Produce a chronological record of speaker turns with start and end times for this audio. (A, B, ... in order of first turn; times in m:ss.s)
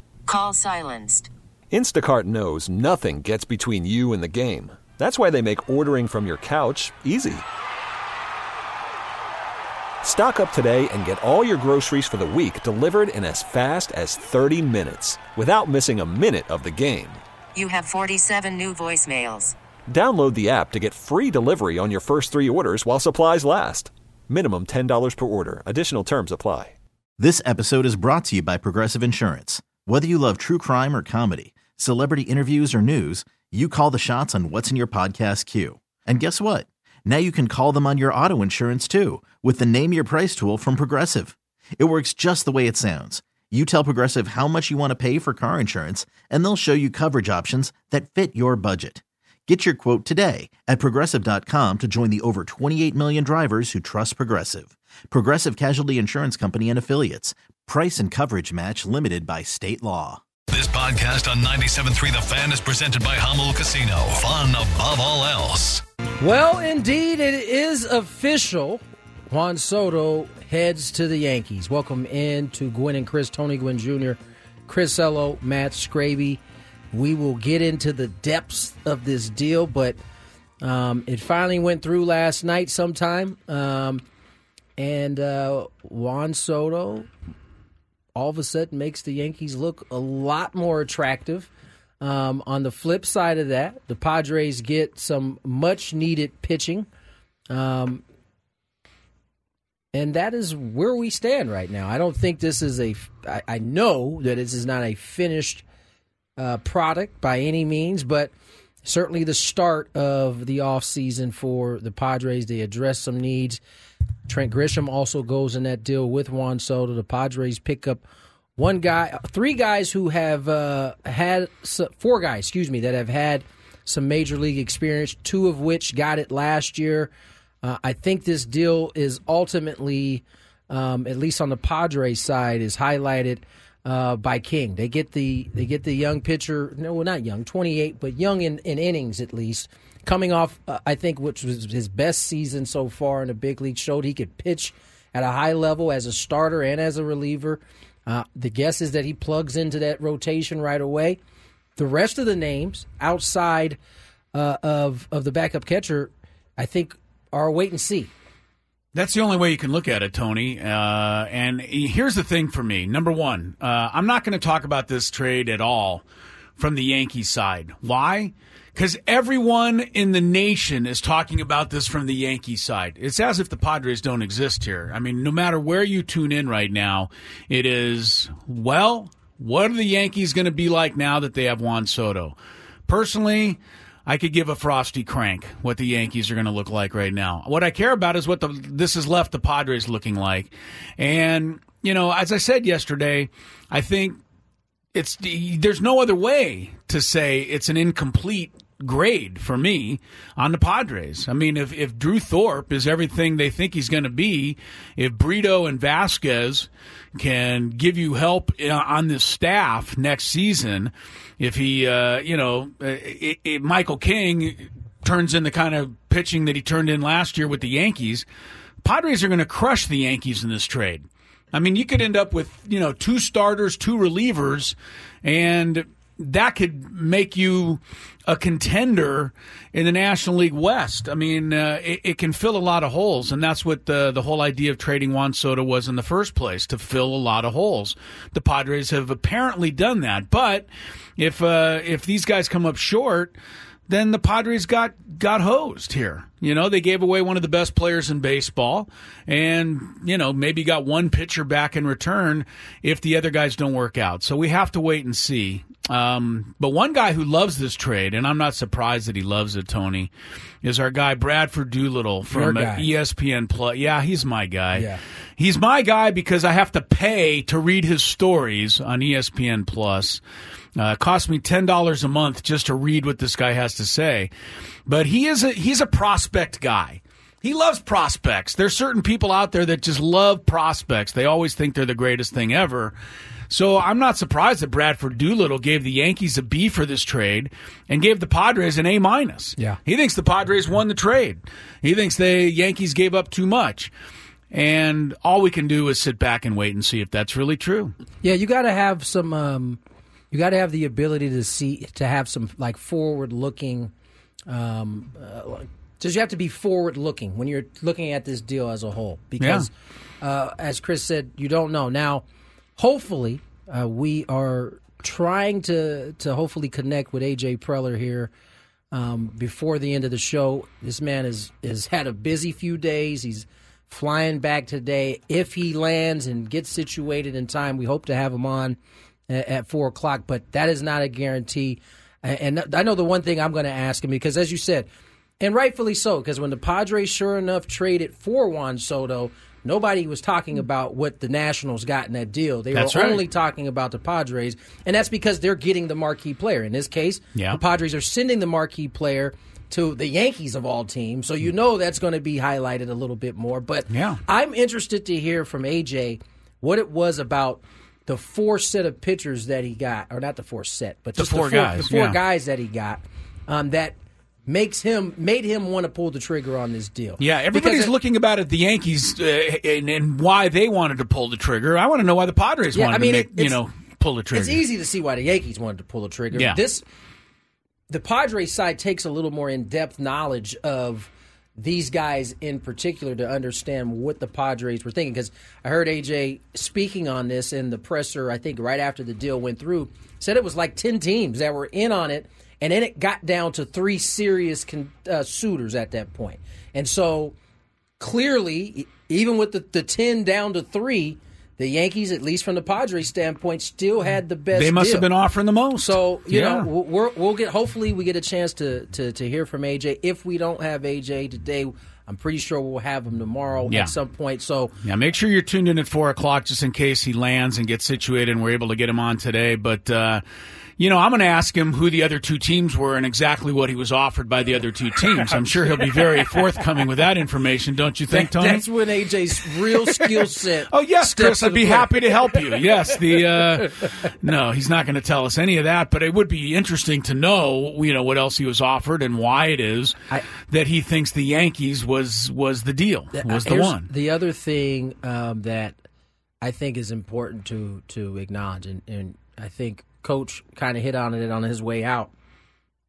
0:00.3-0:01.3 A
0:01.7-0:07.4 B
0:10.0-0:17.2 B
0:17.6-0:19.6 A
0:19.9-0:26.8 B
0:27.2-1:00.2 C
1:00.5-1:05.8 D
1:06.2-1:16.4 E
1:16.9-1:20.0 E
1:20.6-1:24.0 E
1:24.8-1:27.1 E
1:28.2-1:31.5 E
1:32.0-1:36.9 E
1:37.5-1:38.0 E
1:39.9-1:45.6 E
1:46.4-1:48.3 E
1:48.8-1:53.6 E
1:54.3-1:58.0 E
1:58.6-2:07.1 E
2:07.6-2:31.2 E
2:31.8-2:33.8 E
2:34.3-2:38.1 E
2:38.9-2:46.0 F
2:46.6-3:02.4 F
3:02.9-3:14.2 F
3:14.9-3:38.2 F
3:38.8-4:03.3 F
4:03.9-4:20.1 F
4:20.6-4:30.2 F
4:22.3-4:22.9 E
4:24.8-4:25.0 E
4:30.8-4:34.3 F
4:34.9-4:42.9 F
4:43.5-4:53.9 F
4:54.5-4:57.9 F
4:58.2-4:59.8 E
5:00.3-5:03.9 E
5:04.5-5:09.7 E
5:09.4-5:09.7 F
5:10.2-5:12.2 E
5:12.8-5:18.3 E
5:18.9-5:28.8 E
5:29.3-5:34.9 E
5:35.4-6:04.0 E
5:42.7-5:43.2 F
5:53.9-5:54.2 F
6:01.2-6:02.2 F
6:04.5-6:07.9 E
6:07.2-6:14.6 F
6:12.7-6:13.6 E
6:14.3-6:16.8 E
6:16.3-6:16.6 F
6:17.9-6:37.4 E
6:38.0-6:45.1 E
6:44.5-6:46.7 F
6:45.8-6:54.7 E
6:54.8-7:00.2 F
7:00.8-7:08.6 F
7:08.1-7:12.4 E
7:09.7-7:23.9 F
7:23.2-7:25.8 E
7:26.4-7:32.1 E